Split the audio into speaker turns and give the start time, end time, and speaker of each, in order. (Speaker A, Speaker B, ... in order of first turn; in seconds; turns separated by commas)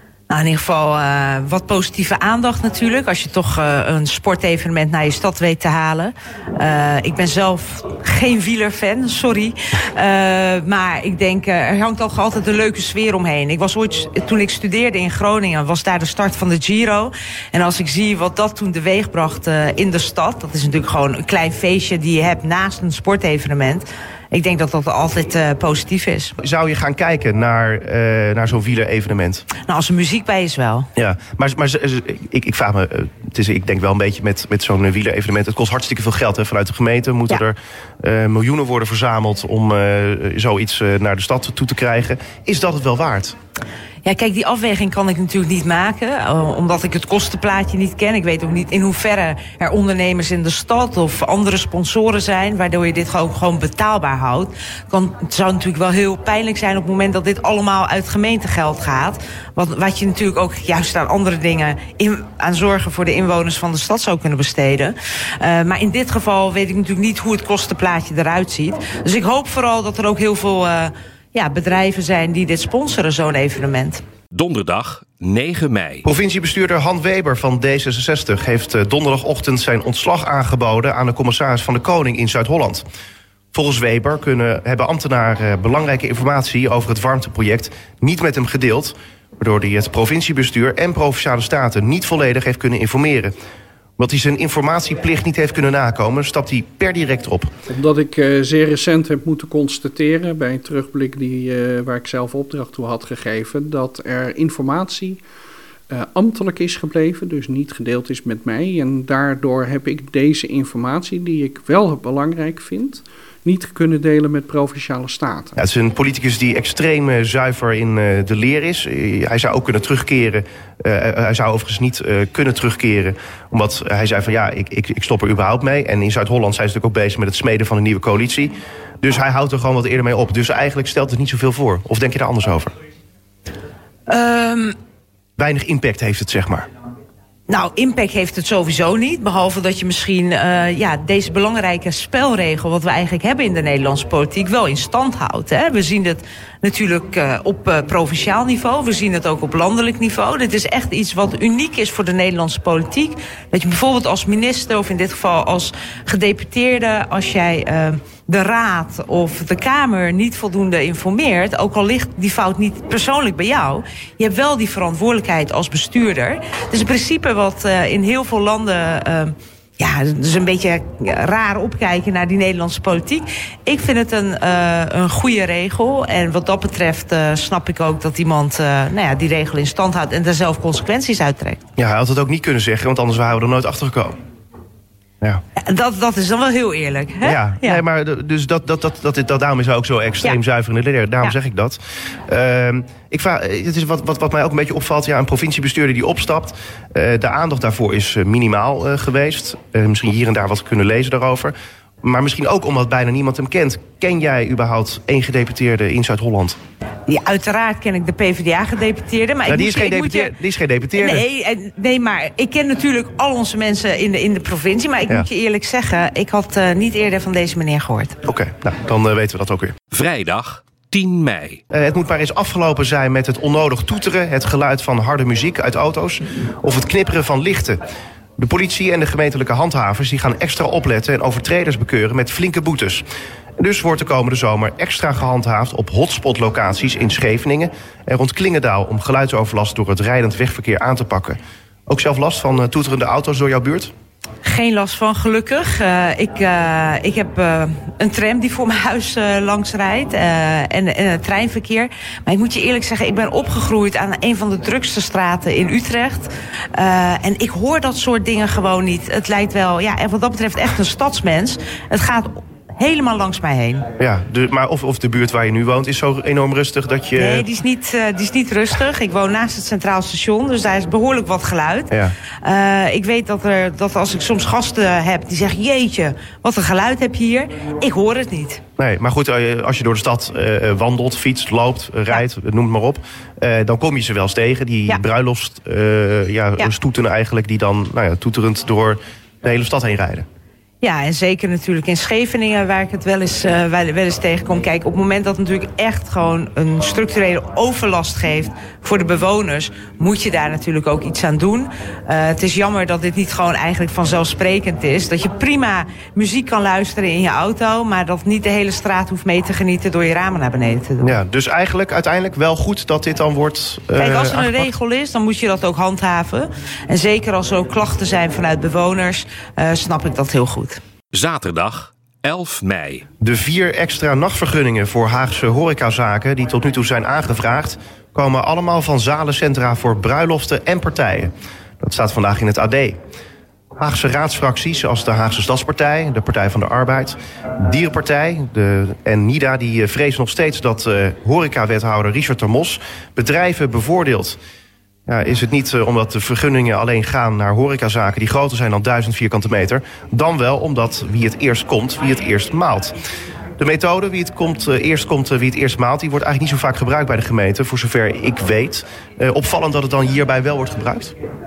Speaker A: 0.3-26.4, Speaker B: 26.4-29.5, Speaker A: 29.7-30.9, Speaker B: 31.0-43.4, Speaker A: 44.0-74.0, Speaker C: 74.3-76.0, Speaker B: 76.0-82.8, Speaker B: 83.5-93.3, Speaker B: 94.0-97.5, Speaker D: 97.7-105.2, Speaker D: 105.9-115.5, Speaker B: 115.6-132.7, Speaker A: 134.1-134.8, Speaker B: 135.4-136.7, Speaker A: 137.5-181.6, Speaker B: 181.8-184.2, Speaker A: 185.6-187.8, Speaker B: 187.2-206.6, Speaker A: 207.1-210.3, Speaker B: 209.5-211.3, Speaker A: 211.0-218.2, Speaker B: 218.2-219.8, Speaker C: 219.9-221.6, Speaker B: 221.7-227.8, Speaker B: 228.4-233.0, Speaker B: 233.6-243.9, Speaker A: 244.4-263.9, Speaker B: 264.0-267.5, Speaker A: 267.2-271.9, Speaker A: 272.4-278.6, Speaker B: 278.8-290.3, Speaker A: 290.8-311.1, Speaker B: 311.0-314.7, Speaker A: 314.0-320.8, Speaker C: 321.1-323.1, Speaker B: 323.2-333.0, Speaker B: 333.8-344.4, Speaker B: 345.1-352.9, Speaker B: 353.6-361.1